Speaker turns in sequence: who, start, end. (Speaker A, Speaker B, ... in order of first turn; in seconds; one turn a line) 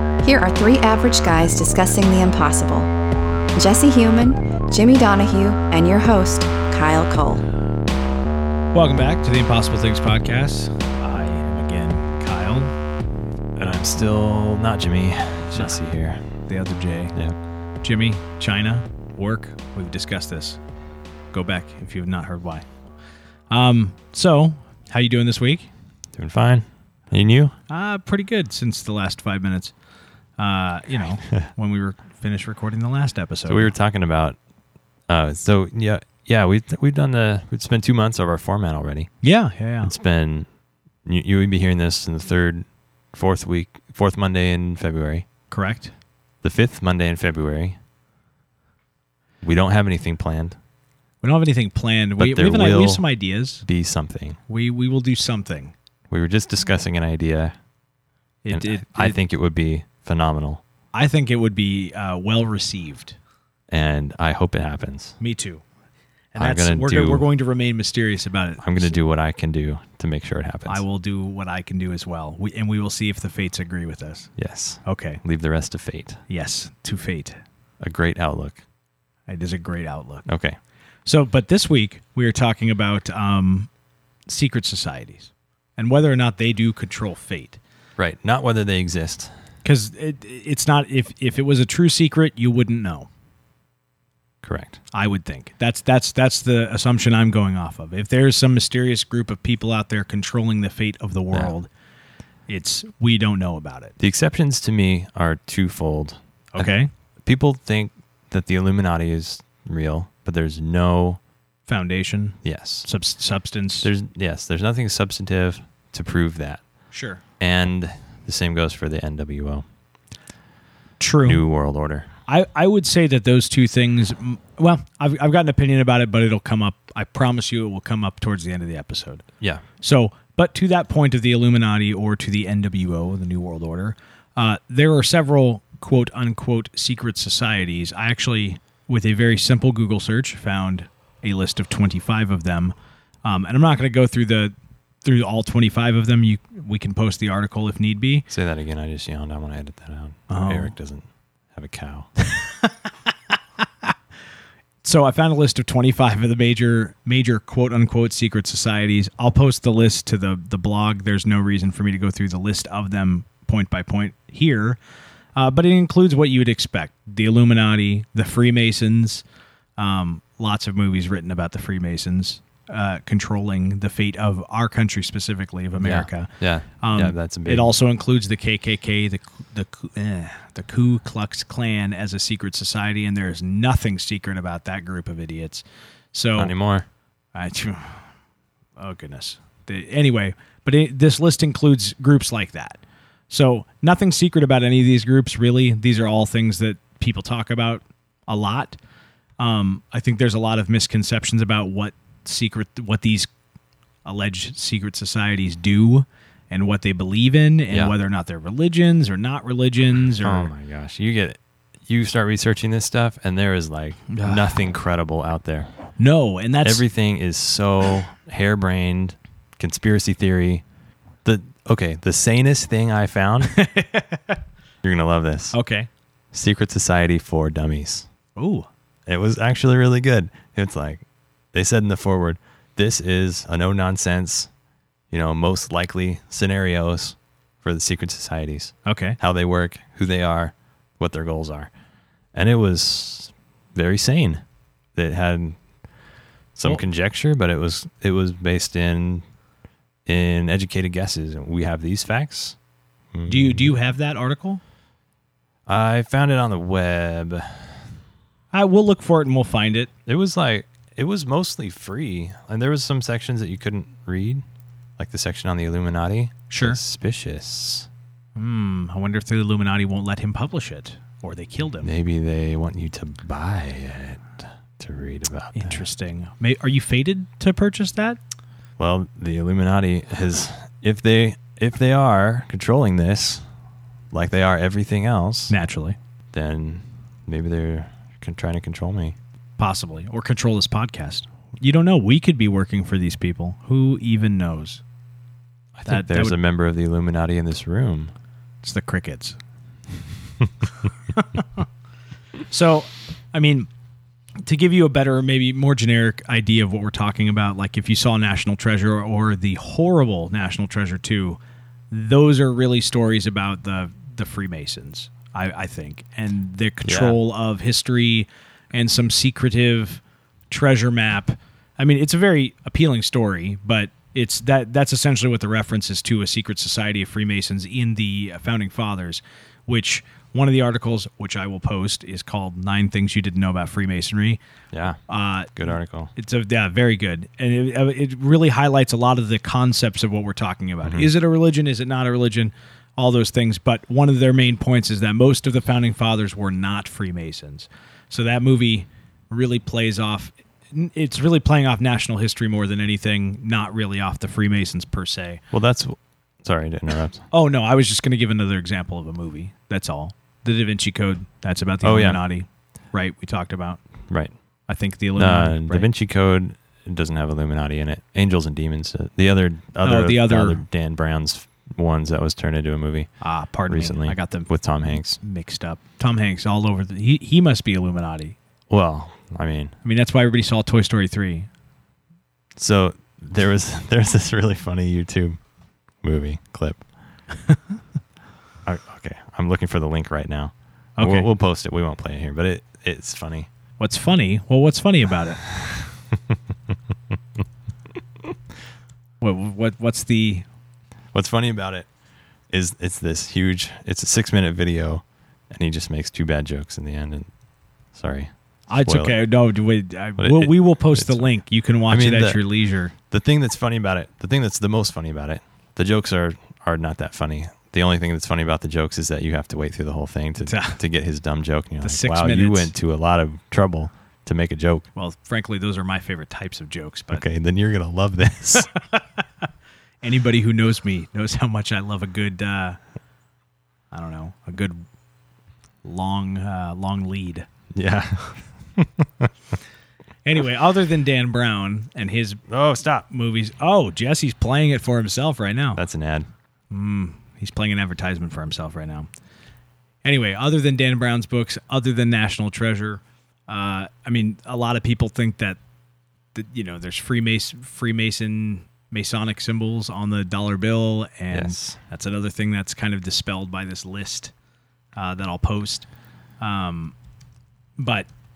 Speaker A: 0.2-2.9
Speaker A: 3.6-7.4
Speaker B: 8.7-12.8
Speaker C: 13.6-16.2
Speaker B: 16.5-17.2
Speaker B: 17.8-20.6
Speaker B: 21.3-22.7
Speaker B: 23.5-25.7
Speaker C: 26.1-27.6
Speaker B: 27.7-29.7
Speaker B: 30.4-33.7
Speaker C: 33.5-34.4
Speaker C: 35.1-39.1
Speaker B: 39.2-39.9
Speaker C: 39.8-40.5
Speaker C: 41.0-45.3
Speaker B: 45.5-45.9
Speaker C: 46.4-47.8
Speaker C: 49.4-50.6
Speaker B: 51.2-53.6
Speaker C: 52.2-53.0
Speaker C: 53.6-54.4
Speaker B: 54.5-55.7
Speaker C: 56.1-57.5
Speaker B: 58.4-59.2
Speaker C: 58.5-60.6
Speaker B: 60.9-63.2
Speaker C: 63.7-65.2
Speaker B: 65.2-65.6
Speaker B: 66.3-69.0
Speaker C: 66.4-67.2
Speaker C: 68.6-70.8
Speaker B: 70.7-74.3
Speaker C: 74.4-76.2
Speaker B: 74.8-75.2
Speaker B: 76.3-77.4
Speaker C: 77.8-78.6
Speaker B: 79.3-80.3
Speaker C: 80.3-80.6
Speaker B: 81.1-83.7
Speaker B: 84.3-87.6
Speaker C: 88.0-89.3
Speaker B: 89.6-93.1
Speaker C: 94.4-94.8
Speaker B: 94.9-101.7
Speaker B: 102.5-104.0
Speaker C: 104.0-106.7
Speaker B: 106.5-106.9
Speaker C: 107.2-111.2
Speaker B: 111.7-113.9
Speaker C: 112.4-112.9
Speaker C: 113.8-116.6
Speaker B: 116.9-117.2
Speaker C: 117.4-119.7
Speaker B: 121.0-121.4
Speaker C: 121.2-122.1
Speaker B: 122.3-129.2
Speaker B: 129.8-148.3
Speaker C: 148.3-152.1
Speaker B: 150.3-150.8
Speaker B: 152.2-152.9
Speaker B: 153.7-153.9
Speaker B: 154.8-164.8
Speaker B: 165.4-169.2
Speaker B: 169.8-186.5
Speaker C: 175.8-177.8
Speaker C: 186.4-186.9
Speaker B: 187.3-188.1
Speaker B: 188.8-198.8
Speaker B: 199.4-203.3
Speaker B: 204.1-210.5
Speaker C: 210.2-215.7
Speaker B: 214.1-214.5
Speaker B: 216.0-216.8
Speaker C: 216.6-220.6
Speaker C: 221.2-223.6
Speaker B: 223.5-224.4
Speaker C: 224.8-225.6
Speaker B: 225.5-225.9
Speaker C: 226.3-228.1
Speaker B: 228.4-228.7
Speaker C: 229.1-234.5
Speaker C: 235.1-241.7
Speaker B: 238.9-239.2
Speaker C: 242.3-244.4
Speaker C: 244.9-245.6
Speaker C: 246.6-249.2
Speaker C: 250.1-252.6
Speaker C: 253.1-253.7
Speaker B: 253.3-254.6
Speaker C: 255.7-257.8
Speaker B: 258.5-259.9
Speaker C: 260.1-264.4
Speaker C: 265.0-267.9
Speaker B: 266.5-266.8
Speaker B: 268.4-271.9
Speaker C: 271.8-275.9
Speaker B: 275.6-278.2
Speaker C: 278.8-283.5
Speaker C: 284.1-285.5
Speaker B: 285.5-286.0
Speaker C: 286.3-289.2
Speaker B: 289.6-294.8
Speaker C: 295.8-298.1
Speaker B: 295.9-296.4
Speaker B: 298.6-299.4
Speaker B: 301.1-301.6
Speaker B: 302.5-303.7
Speaker B: 304.4-311.4
Speaker B: 311.9-334.4
Speaker C: 316.8-317.2
Speaker C: 334.7-335.0
Speaker B: 335.1-335.6
Speaker C: 335.6-336.1
Speaker B: 336.1-355.4
Speaker C: 340.8-341.1
Speaker C: 355.5-357.2
Speaker B: 357.3-363.8
Speaker C: 361.8-362.2
Speaker B: 364.7-365.9
Speaker C: 365.2-373.1
Speaker B: 369.8-370.6
Speaker B: 373.2-378.4
Speaker C: 373.7-375.2
Speaker C: 378.7-379.8
Speaker B: 379.8-381.5
Speaker C: 382.6-385.4
Speaker C: 386.0-386.8
Speaker C: 388.6-393.5
Speaker B: 391.0-391.3
Speaker B: 393.8-395.4
Speaker B: 399.2-400.4
Speaker C: 401.1-401.9
Speaker C: 402.5-407.3
Speaker C: 407.9-408.3
Speaker B: 408.7-412.9
Speaker C: 408.8-409.2
Speaker C: 410.2-411.3
Speaker C: 411.9-412.4
Speaker C: 413.1-424.9
Speaker B: 420.4-420.8
Speaker B: 421.8-422.7
Speaker B: 424.9-427.2
Speaker C: 427.1-428.7
Speaker B: 428.6-429.0
Speaker B: 430.0-432.8
Speaker B: 433.9-434.9
Speaker B: 435.8-437.5
Speaker C: 437.7-439.3
Speaker B: 440.2-442.5
Speaker C: 442.5-443.1
Speaker B: 443.1-445.8
Speaker C: 445.8-446.3
Speaker B: 446.7-449.1
Speaker B: 450.0-455.6
Speaker B: 456.4-464.3
Speaker C: 461.3-461.8
Speaker B: 465.0-465.9
Speaker B: 466.4-466.9
Speaker B: 467.8-468.1